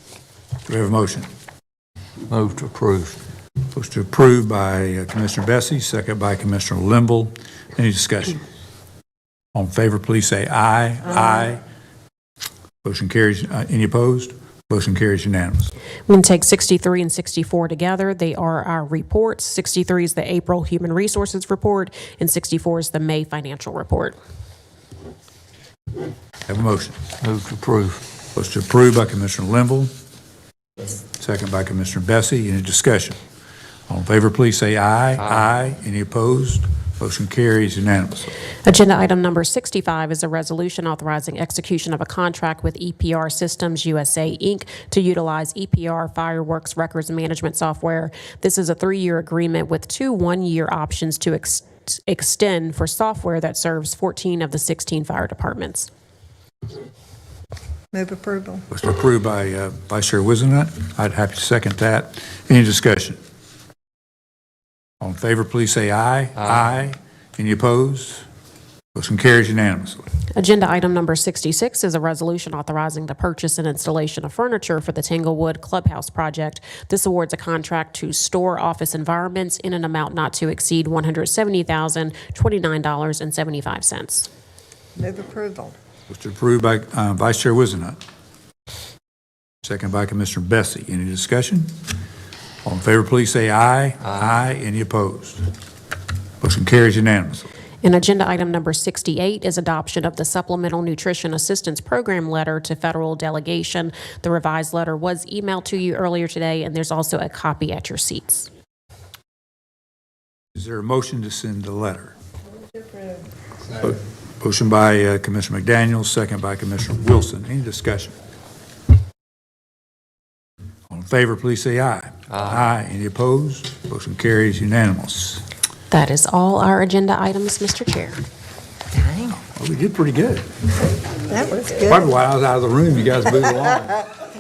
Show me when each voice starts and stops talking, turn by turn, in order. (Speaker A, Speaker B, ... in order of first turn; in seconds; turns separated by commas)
Speaker A: 0.7-1.3, Speaker B: 2.3-3.2, Speaker A: 3.7-8.4, Speaker A: 9.5-11.6, Speaker A: 12.8-15.7, Speaker C: 16.1-24.2, Speaker A: 26.5-27.1, Speaker B: 27.2-28.1, Speaker A: 28.4-29.9, Speaker A: 31.2-33.2, Speaker A: 33.9-38.3, Speaker C: 38.6-55.9, Speaker D: 57.9-58.6, Speaker A: 58.7-63.2, Speaker A: 65.0-68.2, Speaker A: 68.9-70.0, Speaker C: 70.4-84.3, Speaker D: 85.0-85.8, Speaker A: 86.1-88.0, Speaker A: 89.6-91.8, Speaker A: 92.6-95.5, Speaker A: 96.4-97.5, Speaker C: 97.8-108.5, Speaker A: 110.5-112.2, Speaker A: 113.7-118.2, Speaker A: 120.9-125.5, Speaker C: 125.9-128.2, Speaker B: 129.0-129.3, Speaker A: 129.5-130.5, Speaker D: 131.2-132.1, Speaker A: 131.9-134.0